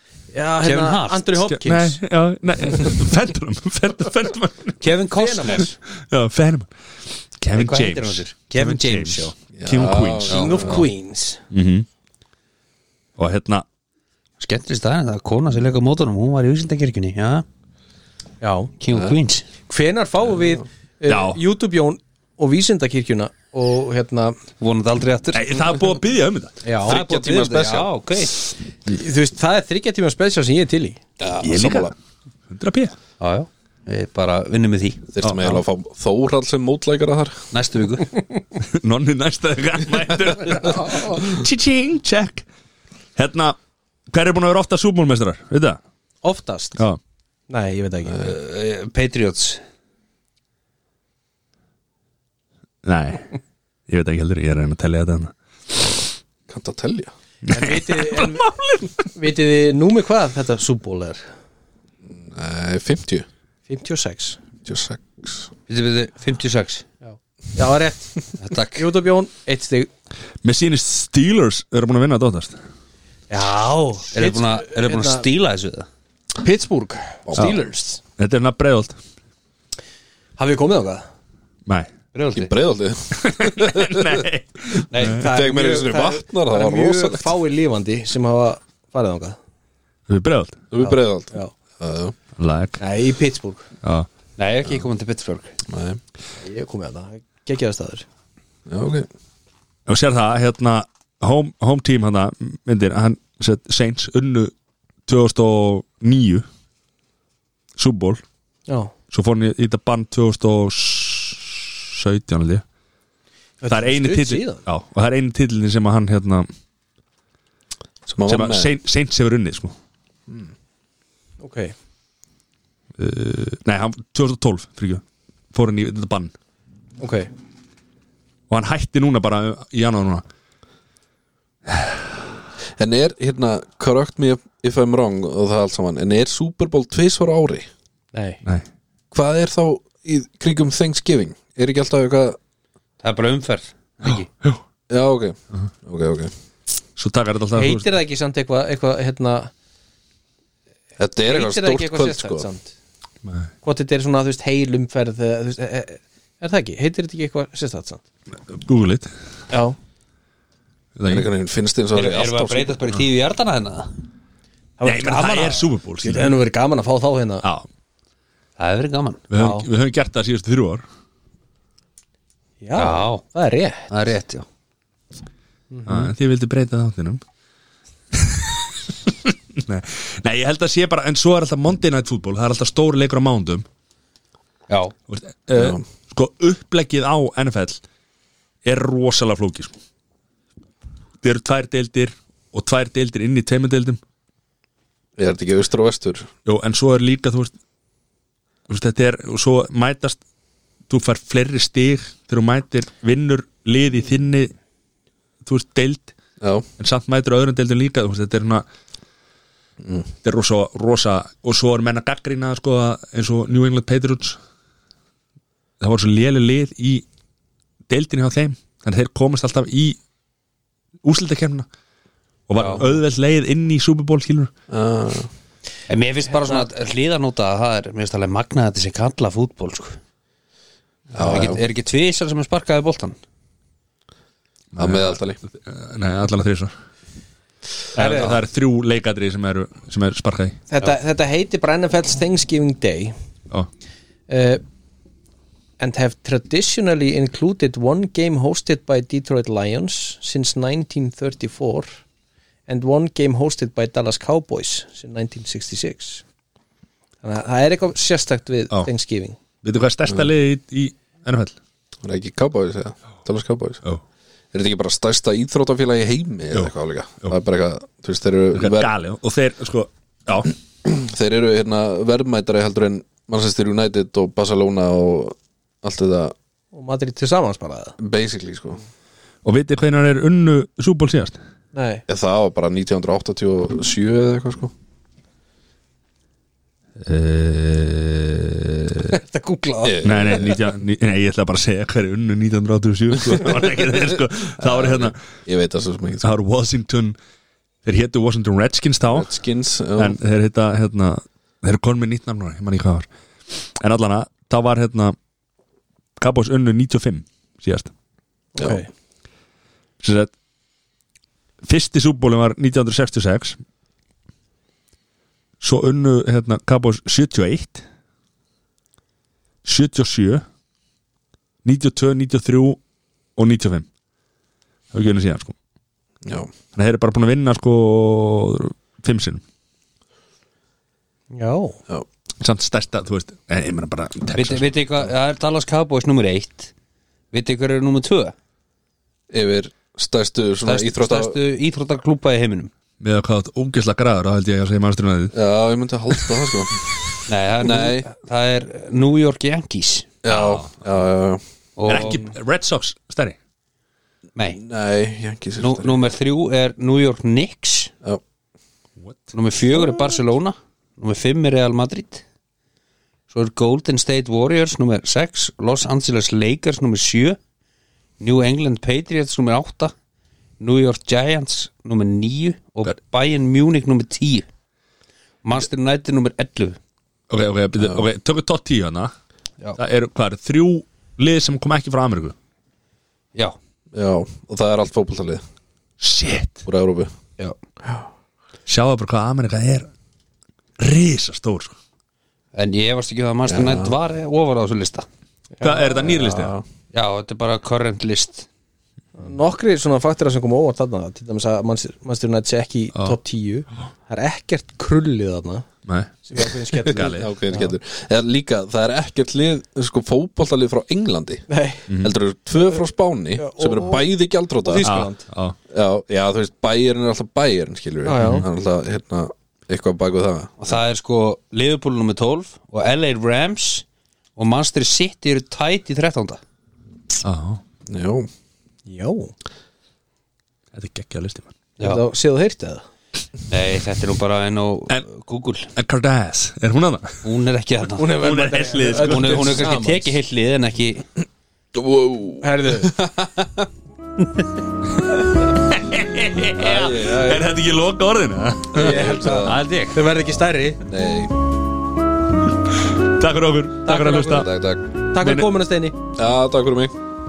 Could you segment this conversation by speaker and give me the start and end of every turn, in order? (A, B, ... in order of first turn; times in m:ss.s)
0:00.3-0:02.0 A
0:00.6-0:01.3 B
0:01.4-0:06.7 C
0:04.8-0:05.8 A
0:07.4-0:10.8 C
0:07.5-0:08.4 B
0:08.5-0:09.3 A
0:09.6-0:10.8 D
0:10.3-0:11.4 A
0:11.5-0:11.9 C
0:13.2-0:13.6 C
0:14.4-0:17.4 B
0:18.4-0:18.7 A
0:18.8-0:19.5 B
0:19.7-0:24.4 A
0:21.1-0:21.4 C
0:24.6-0:25.9 B
0:25.3-0:26.6 C
0:26.6-0:27.0 A
0:26.8-0:27.9 D
0:26.8-0:28.3 B
0:28.9-0:31.0 A
0:31.2-0:31.9 D
0:31.4-0:31.9 C
0:32.5-0:32.9 C
0:33.2-0:35.5 B
0:35.1-0:37.4 D
0:35.2-0:35.5 C
0:37.5-0:38.1 B
0:38.6-0:42.4 C
0:40.6-0:41.1 A
0:43.2-0:43.6 C
0:44.1-0:45.8 C
0:46.2-0:46.8 A
0:47.5-0:48.4 A
0:48.2-0:49.6 B
0:52.8-0:53.3 C
0:53.9-0:55.9 C
0:56.5-0:57.1 D
0:57.4-0:59.1 C
0:57.5-1:01.2 A
1:02.1-1:03.2 D
1:03.7-1:04.4 A
1:04.6-1:05.5 D
1:05.7-1:06.8 B
1:07.0-1:09.9 A
1:08.4-1:08.9 B
1:10.4-1:12.6 C
1:13.3-1:15.2 A
1:14.1-1:15.9 B
1:16.4-1:18.0 A
1:17.3-1:17.5 D
1:18.2-1:19.0 C
1:20.4-1:21.0 A
1:21.7-1:21.9 C
1:22.1-1:22.5 B
1:22.3-1:24.2 D
1:23.1-1:25.2 C
1:24.9-1:25.2 B
1:25.0-1:29.4 A
1:25.1-1:27.3 D
1:30.1-1:30.6 C
1:30.7-1:32.1 D
1:30.8-1:31.5 A
1:32.4-1:32.8 C
1:32.8-1:33.6 A
1:33.8-1:34.1 C
1:34.4-1:35.6 B
1:35.7-1:36.0 D
1:36.4-1:38.0 A
1:38.7-1:39.1 D
1:39.9-1:44.5 C
1:45.0-1:46.4 C
1:47.8-1:48.2 C
1:49.1-1:52.6 C
1:53.6-1:54.6 A
1:53.7-1:56.5 C
1:58.1-1:58.7 D
1:58.2-1:59.7 C
2:01.4-2:01.7 A
2:03.0-2:06.3 C
2:07.0-2:07.3 A
2:08.5-2:10.2 C
2:11.7-2:11.9 C
2:12.8-2:17.7 D
2:18.1-2:18.4 A
2:19.1-2:22.4 D
2:23.0-2:24.3 B
2:24.0-2:24.6 C
2:24.9-2:26.3 D
2:27.0-2:27.9 C
2:27.5-2:29.5 A
2:31.0-2:32.5 D
2:31.2-2:32.7 A
2:33.2-2:33.5 C
2:33.6-2:38.0 A
2:38.5-2:39.1 C
2:39.5-2:39.8 A
2:41.0-2:41.3 C
2:41.0-2:42.8 D
2:41.9-2:43.9 B
2:44.8-2:47.4 A
2:44.8-2:46.4 C
2:48.6-2:49.3 B
2:49.3-2:50.8 C
2:49.3-2:49.7 A
2:52.6-2:53.8 A
2:52.8-2:53.2 B
2:53.9-2:54.4 B
2:55.7-2:56.1 A
2:55.8-2:57.2 C
2:58.1-3:03.6 C
3:04.7-3:04.9 B
3:05.1-3:07.8 C
3:05.5-3:05.8 D
3:08.6-3:09.7 C
3:11.2-3:14.0 C
3:15.2-3:16.3 D
3:16.4-3:17.5 C
3:18.7-3:20.2 C
3:20.9-3:24.5 C
3:25.4-3:26.1 C
3:26.4-3:26.6 D
3:26.8-3:28.6 C
3:29.8-3:30.1 D
3:30.2-3:34.4 C
3:35.8-3:37.0 C
3:37.9-3:40.0 C
3:41.0-3:41.7 C
3:42.5-3:44.5 C
3:42.6-3:42.8 B
3:44.7-3:45.3 D
3:45.9-3:50.0 B
3:51.1-3:53.2 B
3:51.2-3:51.6 D
3:54.7-3:56.7 C
3:54.8-3:55.4 D
3:57.9-3:58.4 A
3:57.9-4:00.6 C
4:00.7-4:03.1 A
4:04.3-4:04.6 A
4:05.8-4:11.9 A
4:12.7-4:16.2 A
4:17.2-4:19.4 A
4:19.6-4:21.6 C
4:22.0-4:23.8 D
4:24.5-4:28.9 D
4:28.5-4:30.5 C
4:30.8-4:36.3 D
4:36.7-4:38.0 A
4:38.0-4:38.8 D
4:39.4-4:41.4 C
4:41.7-4:42.0 A
4:42.1-4:44.7 D
4:47.0-4:49.1 C
4:49.1-4:50.1 A
4:49.8-4:50.6 D
4:50.0-4:55.2 C
4:54.6-4:56.3 D
4:56.2-4:57.2 C
4:57.8-4:59.3 C
4:59.1-5:00.2 D
5:00.0-5:05.2 C
5:06.2-5:07.9 C
5:08.5-5:08.9 A
5:10.0-5:10.3 C
5:11.6-5:13.6 C
5:15.6-5:17.8 C
5:19.6-5:20.4 C
5:21.6-5:22.8 C
5:23.4-5:23.9 C
5:24.9-5:25.5 C
5:26.2-5:26.5 D
5:26.7-5:29.4 C
5:31.3-5:31.8 A
5:32.4-5:35.1 C
5:34.3-5:36.7 B
5:37.3-5:38.3 B
5:39.3-5:41.4 D
5:40.6-5:42.7 B
5:43.0-5:45.4 C
5:45.3-5:46.9 D
5:47.3-5:50.1 B
5:47.6-5:48.1 D
5:50.2-5:52.0 D
5:50.3-5:50.7 C
5:51.8-5:52.3 B
5:51.8-5:53.4 C
5:54.4-5:54.6 B
5:54.6-5:56.0 D
5:55.6-5:57.9 B
5:59.0-5:59.3 C
5:59.3-6:02.2 B
6:03.3-6:07.4 B
6:08.2-6:09.9 B
6:10.6-6:14.4 B
6:15.4-6:16.8 B
6:17.3-6:19.1 C
6:19.8-6:22.3 C
6:23.9-6:25.4 D
6:26.0-6:26.6 C
6:26.6-6:27.1 D
6:28.7-6:29.9 C
6:30.8-6:31.8 C
6:32.5-6:35.0 B
6:33.5-6:33.9 D
6:35.6-6:36.0 A
6:35.6-6:36.5 C
6:36.0-6:36.6 D
6:36.9-6:38.5 B
6:39.2-6:45.6 A
6:45.8-6:46.1 C
6:46.3-6:47.7 A
6:46.8-6:47.3 C
6:46.9-6:55.0 D
6:51.5-6:51.8 A
6:51.9-6:52.1 C
6:53.4-6:54.1 A
6:54.6-6:55.2 A
6:54.8-6:55.6 C
6:55.7-7:00.8 D
6:58.0-6:58.4 A
6:58.2-6:58.4 C
7:00.6-7:03.8 B
7:04.4-7:06.4 B
7:07.2-7:07.6 C
7:07.9-7:08.3 D
7:08.8-7:09.3 A
7:10.7-7:11.5 C
7:11.8-7:12.0 B
7:11.8-7:12.8 A
7:13.5-7:15.7 B
7:15.7-7:17.2 C
7:17.2-7:18.2 B
7:18.0-7:20.1 A
7:18.1-7:19.7 C
7:19.0-7:21.0 B
7:21.7-7:23.7 D
7:22.4-7:22.9 A
7:25.1-7:29.1 C
7:26.6-7:27.5 D
7:28.7-7:30.8 A
7:28.7-7:29.6 D
7:29.3-7:30.0 B
7:30.8-7:31.3 D
7:32.6-7:34.5 C
7:33.8-7:34.5 A
7:34.3-7:34.8 D
7:35.1-7:36.0 A
7:35.2-7:35.5 C
7:36.2-7:36.9 D